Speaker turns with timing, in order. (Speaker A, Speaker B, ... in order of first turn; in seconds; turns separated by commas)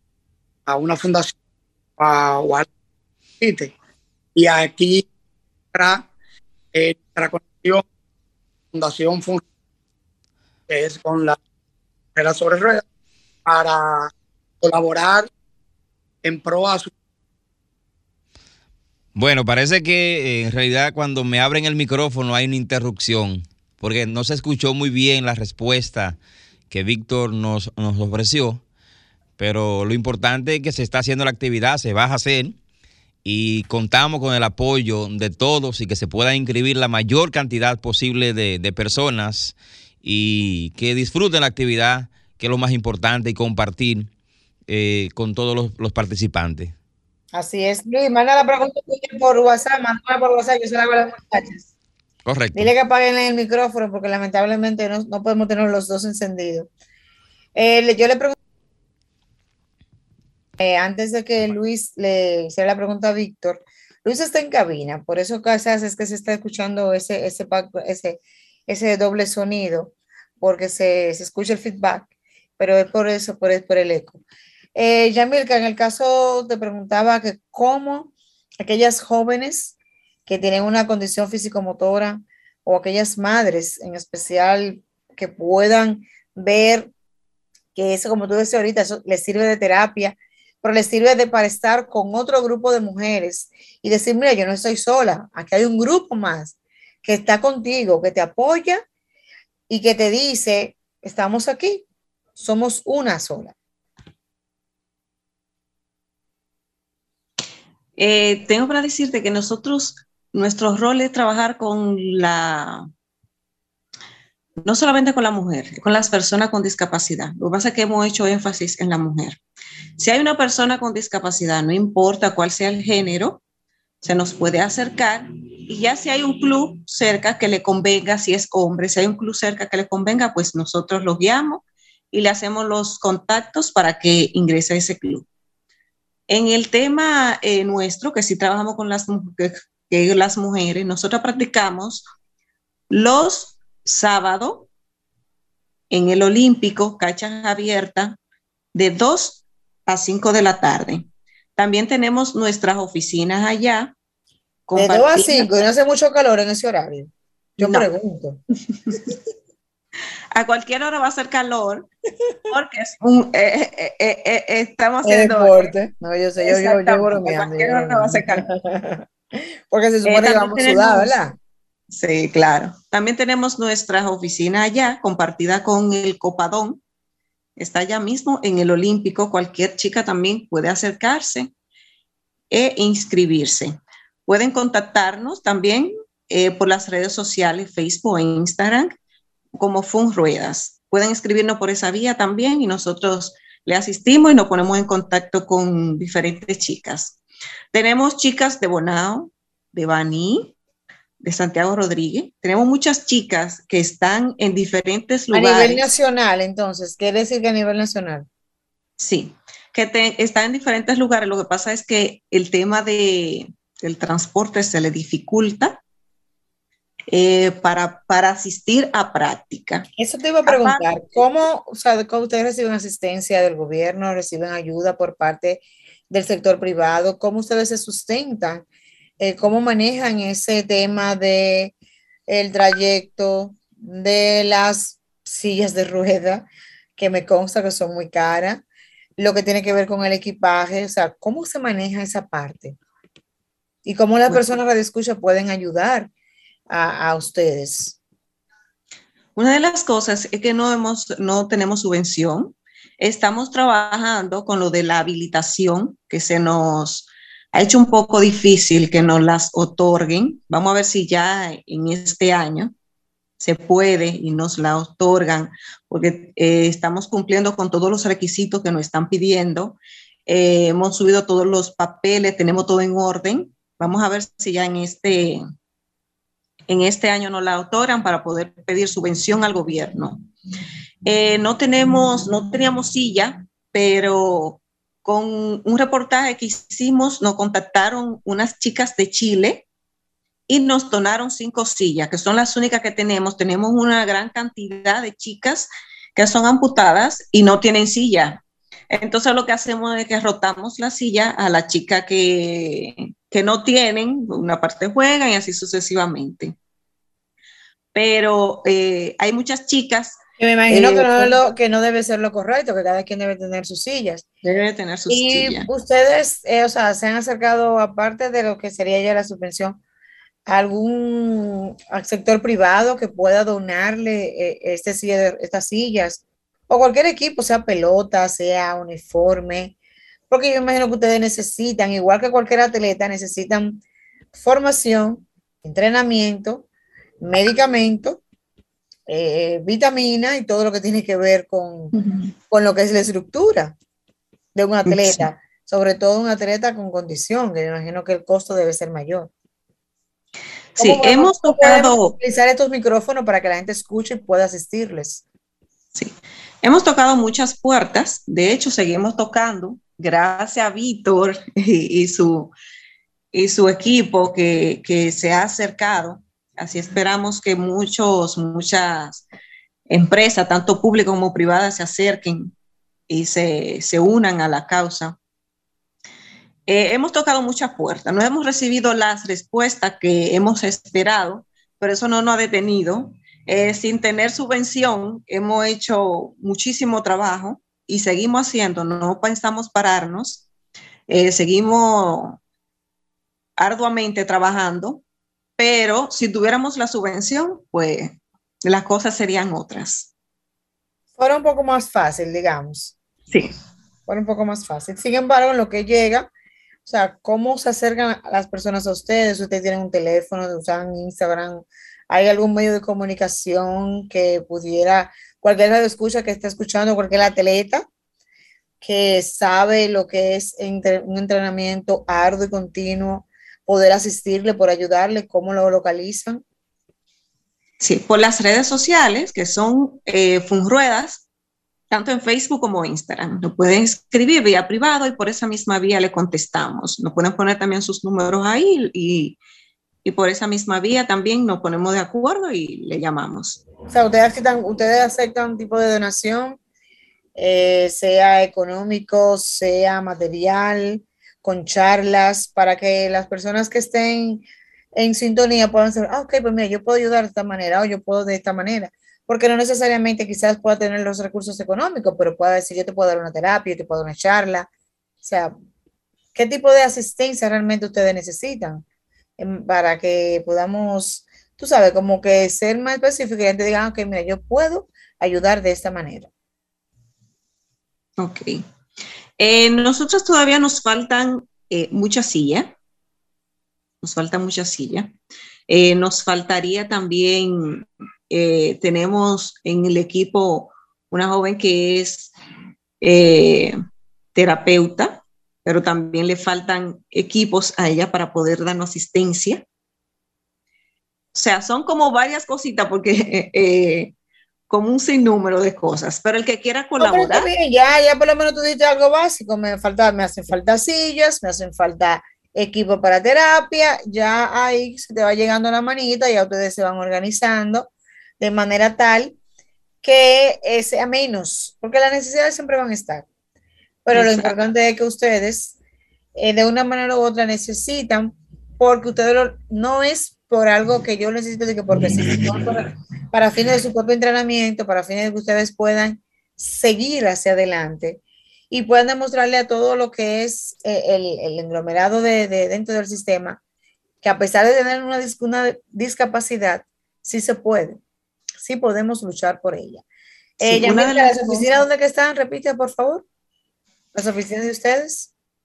Speaker A: 0.7-1.3, Speaker A: 2.0-2.7, Speaker A: 3.4-3.7, Speaker A: 4.3-5.1, Speaker A: 5.7-6.0, Speaker A: 6.7-7.8, Speaker A: 8.7-9.4, Speaker A: 10.7-11.4, Speaker A: 12.2-12.8, Speaker A: 13.4-14.1, Speaker A: 14.6-15.3, Speaker A: 16.2-16.9, Speaker B: 19.1-26.2, Speaker B: 26.7-28.6, Speaker B: 29.4-32.6, Speaker B: 33.2-44.1, Speaker B: 44.7-46.7, Speaker C: 47.3-51.7, Speaker B: 52.2-52.7, Speaker C: 52.5-56.7, Speaker C: 57.5-58.4, Speaker C: 60.6-72.1, Speaker C: 72.6-74.2, Speaker C: 74.7-86.9, Speaker C: 87.7-98.8, Speaker C: 99.7-101.8, Speaker C: 102.3-103.5, Speaker D: 108.0-112.9, Speaker D: 114.6-119.4, Speaker D: 120.0-123.4, Speaker D: 124.0-135.2, Speaker D: 136.3-142.0, Speaker D: 142.9-144.7, Speaker D: 145.9-148.2, Speaker D: 148.7-153.9, Speaker D: 154.7-155.5, Speaker C: 154.7-158.4, Speaker D: 157.6-157.9, Speaker D: 158.7-159.0, Speaker D: 160.3-161.9, Speaker D: 162.5-165.7, Speaker C: 165.0-169.0, Speaker D: 166.4-168.4, Speaker C: 169.7-171.3, Speaker D: 170.0-171.2, Speaker D: 171.9-176.8, Speaker D: 177.6-181.5, Speaker D: 182.5-188.9, Speaker D: 189.6-197.2, Speaker D: 197.7-200.5, Speaker D: 201.2-205.9, Speaker C: 205.3-208.2, Speaker D: 209.0-215.8, Speaker D: 217.1-219.9, Speaker C: 220.0-228.6, Speaker D: 220.5-220.8, Speaker C: 229.2-231.7, Speaker C: 232.3-238.6, Speaker C: 239.2-242.8, Speaker C: 243.8-246.1, Speaker C: 246.7-248.0, Speaker D: 249.3-262.7, Speaker D: 263.4-275.4, Speaker D: 276.7-280.3, Speaker D: 281.0-289.6, Speaker D: 290.5-306.5, Speaker D: 307.9-310.2, Speaker C: 310.4-314.2, Speaker D: 310.7-311.4, Speaker D: 314.4-315.7, Speaker C: 315.1-319.8, Speaker C: 320.4-329.7, Speaker C: 330.3-333.8, Speaker C: 334.3-336.6, Speaker C: 337.2-338.2, Speaker C: 339.1-341.9, Speaker D: 342.0-342.3, Speaker C: 342.5-343.7, Speaker C: 344.5-349.3, Speaker D: 344.9-345.2, Speaker D: 350.7-352.1, Speaker C: 350.8-355.2, Speaker D: 355.9-362.5, Speaker D: 363.3-369.2, Speaker D: 369.9-372.5, Speaker D: 373.1-375.2, Speaker D: 376.7-390.4, Speaker D: 391.1-392.4, Speaker D: 393.6-395.0, Speaker D: 395.6-400.1, Speaker C: 401.2-402.9, Speaker C: 404.1-406.3, Speaker C: 406.8-417.9, Speaker C: 418.8-426.4, Speaker D: 427.8-431.2, Speaker D: 431.9-439.4, Speaker D: 440.0-443.6, Speaker C: 443.9-446.6, Speaker C: 447.3-464.7, Speaker C: 465.2-465.5, Speaker C: 466.3-468.8, Speaker C: 469.4-476.3, Speaker D: 478.2-478.6, Speaker D: 479.4-482.7, Speaker D: 484.0-485.1, Speaker D: 485.7-492.3, Speaker D: 493.0-493.7, Speaker D: 494.3-499.6, Speaker D: 501.3-504.1, Speaker D: 504.7-507.5, Speaker C: 507.0-519.4, Speaker C: 520.0-523.2, Speaker C: 524.0-525.8, Speaker D: 524.1-524.5, Speaker C: 526.3-538.2, Speaker C: 538.7-543.6, Speaker C: 544.2-548.0, Speaker C: 548.6-550.0, Speaker C: 550.6-553.2, Speaker D: 550.6-551.6, Speaker C: 554.1-555.3